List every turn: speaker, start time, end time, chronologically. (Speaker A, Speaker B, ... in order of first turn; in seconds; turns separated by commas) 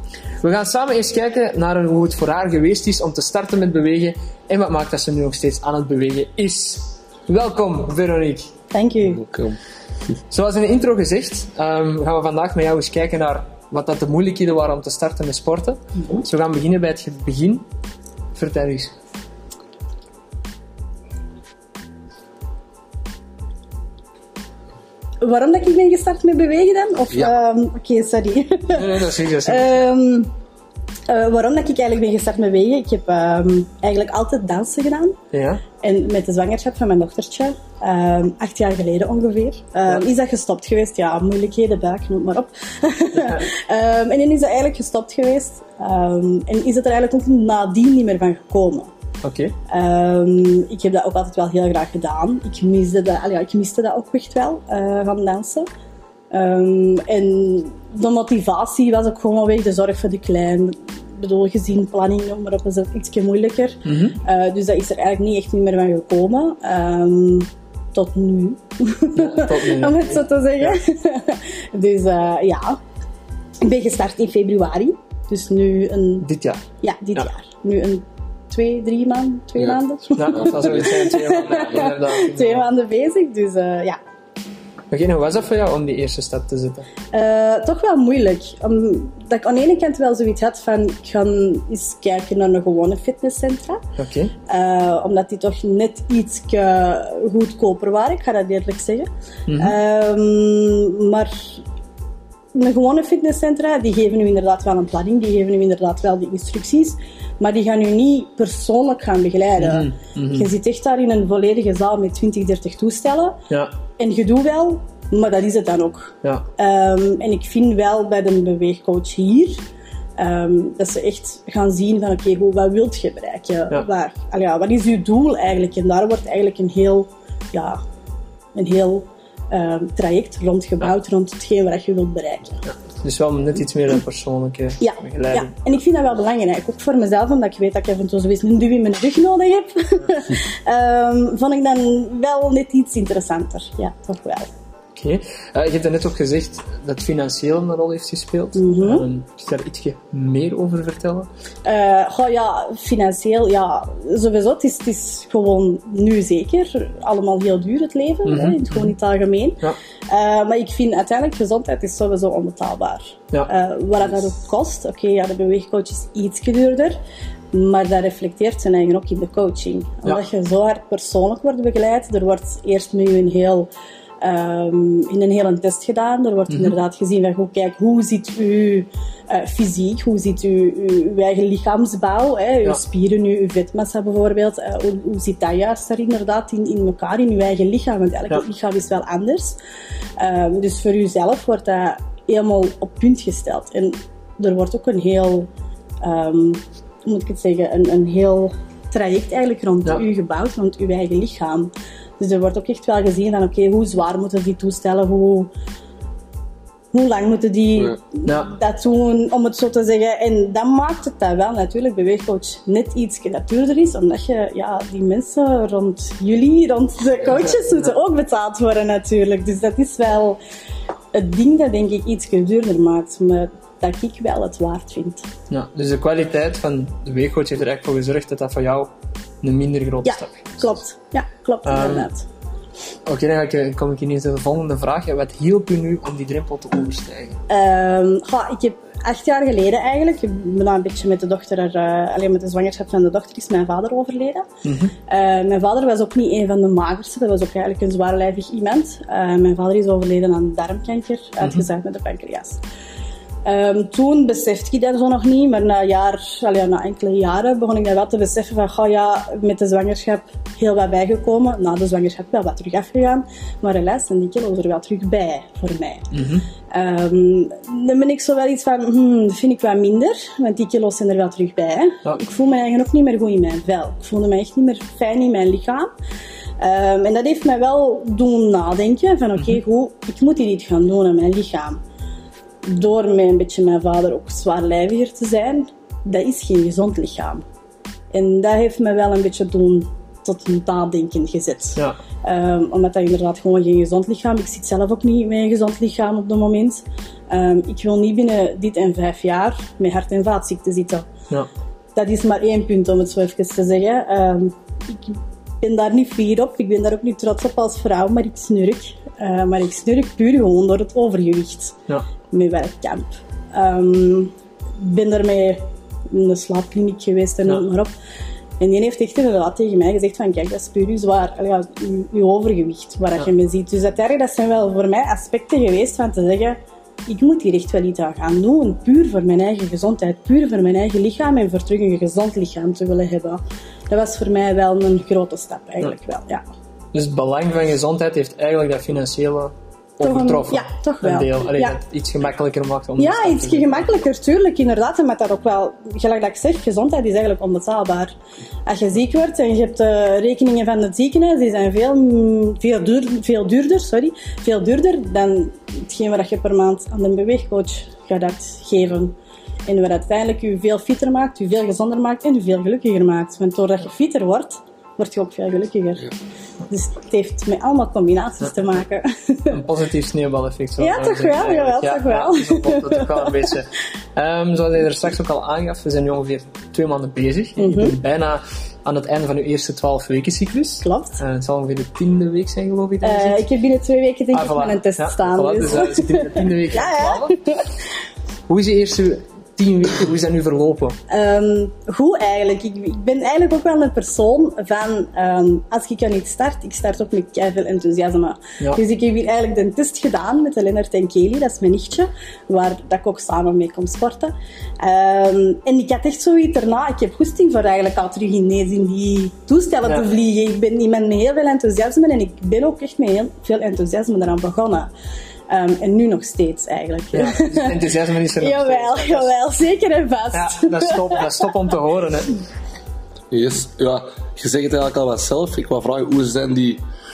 Speaker A: 0.4-8.5, Speaker B: 8.7-9.2, Speaker C: 9.0-9.6, Speaker A: 10.3-17.6, Speaker A: 18.4-18.9, Speaker B: 25.2-30.3, Speaker A: 28.7-29.9, Speaker B: 31.1-35.2, Speaker A: 35.3-35.6, Speaker B: 35.8-48.9, Speaker A: 43.2-43.4, Speaker A: 49.2-49.5, Speaker B: 49.7-55.7, Speaker B: 56.3-72.8, Speaker A: 63.9-64.2, Speaker A: 69.2-70.7, Speaker B: 73.6-76.3, Speaker A: 76.2-76.6, Speaker B: 76.8-84.0, Speaker A: 80.2-82.7, Speaker A: 84.9-86.9, Speaker B: 87.1-93.8, Speaker A: 94.0-94.3, Speaker B: 94.5-101.6, Speaker A: 99.5-99.8, Speaker B: 102.5-113.4, Speaker A: 109.6-110.5, Speaker B: 114.0-119.6, Speaker B: 120.2-127.8, Speaker B: 128.6-132.6, Speaker A: 132.7-135.5, Speaker B: 134.8-144.5, Speaker A: 145.0-151.3, Speaker B: 148.6-149.1, Speaker B: 151.7-167.0, Speaker A: 158.3-159.0, Speaker B: 167.5-173.7, Speaker B: 174.2-189.6, Speaker A: 176.5-176.8, Speaker B: 190.2-195.5, Speaker B: 196.0-205.5, Speaker B: 206.9-220.4, Speaker A: 208.2-208.5, Speaker B: 221.1-225.2, Speaker A: 225.5-228.9, Speaker A: 229.4-230.7, Speaker B: 230.1-232.3, Speaker A: 231.7-232.1, Speaker A: 233.1-237.4, Speaker B: 237.5-244.5, Speaker A: 244.6-244.9, Speaker B: 245.1-252.6, Speaker B: 253.4-266.1, Speaker A: 266.1-266.4, Speaker B: 266.7-275.9, Speaker B: 276.6-281.8, Speaker B: 282.6-287.4, Speaker B: 288.1-301.1, Speaker B: 301.9-311.8, Speaker B: 312.3-317.9, Speaker B: 318.6-336.4, Speaker A: 336.9-343.8, Speaker B: 340.0-341.8, Speaker B: 343.0-359.1, Speaker B: 359.7-366.1, Speaker B: 366.7-369.6, Speaker A: 369.5-383.4, Speaker B: 370.8-373.5, Speaker B: 377.6-378.0, Speaker B: 380.8-381.2, Speaker B: 383.0-387.7, Speaker A: 384.3-387.4, Speaker A: 388.5-390.9, Speaker B: 391.1-414.9, Speaker B: 415.5-417.8, Speaker A: 417.1-419.3, Speaker B: 418.4-421.5, Speaker A: 420.3-422.4, Speaker C: 423.3-426.8